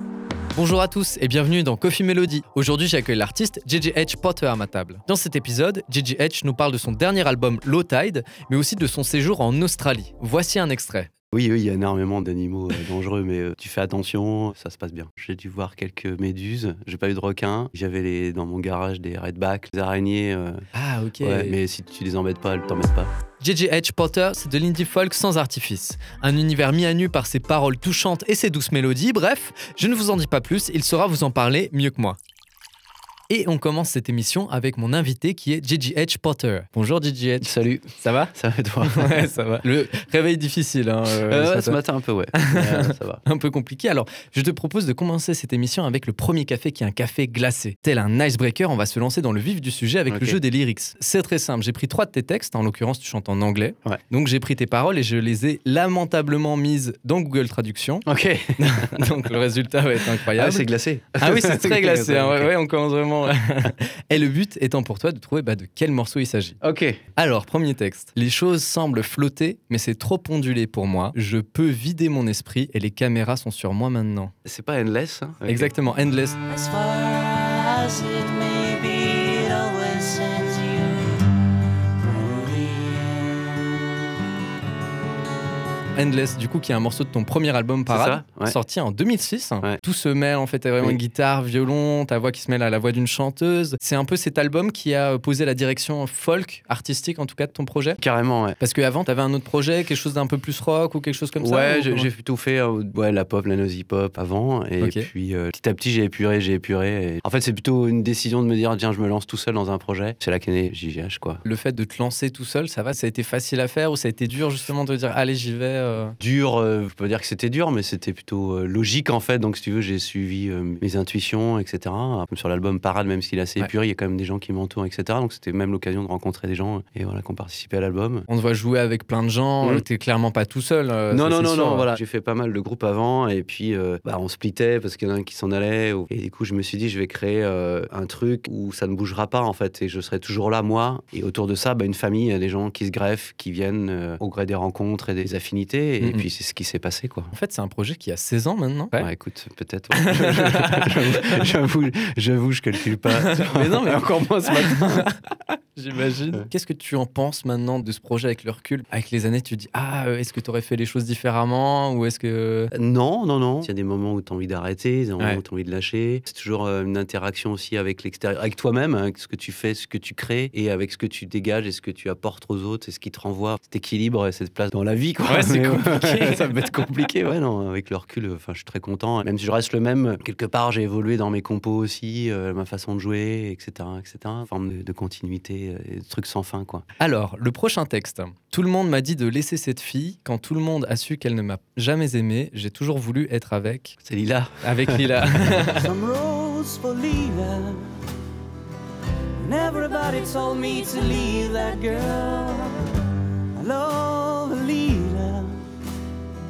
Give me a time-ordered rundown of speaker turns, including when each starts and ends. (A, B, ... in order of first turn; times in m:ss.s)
0:00.5-0:11.1 A
0:11.3-0:20.6 B
0:20.7-0:21.6 A
0:21.2-0:23.1 B
0:23.4-0:32.2 A
0:33.3-0:41.8 A
0:37.4-0:39.3 B
0:41.3-0:43.2 B
0:42.3-1:06.6 A
0:50.1-0:50.4 B
0:58.1-0:59.2 B
1:00.3-1:02.5 B
1:06.6-1:07.0 B
1:07.2-1:14.3 A
1:14.4-1:15.7 B
1:15.4-1:16.4 A
1:16.5-1:21.3 C
1:22.0-1:23.6 C
1:26.0-1:38.0 A
1:27.9-1:28.6 B
1:38.0-1:38.6 B
1:38.6-1:42.1 A
1:41.4-1:51.4 B
1:44.8-1:45.1 A
1:51.4-1:56.2 A
1:56.2-2:08.3 B
2:08.3-2:11.9 A
2:11.1-2:27.3 B
2:27.3-2:29.1 A
2:29.0-2:35.1 B
2:29.9-2:31.5 A
2:33.1-2:42.7 A
2:42.7-3:06.8 B
2:55.3-2:56.6 A
3:07.0-3:14.0 A
3:14.0-3:15.7 B
3:14.6-3:15.9 A
3:15.7-3:18.0 C
3:19.4-3:25.6 C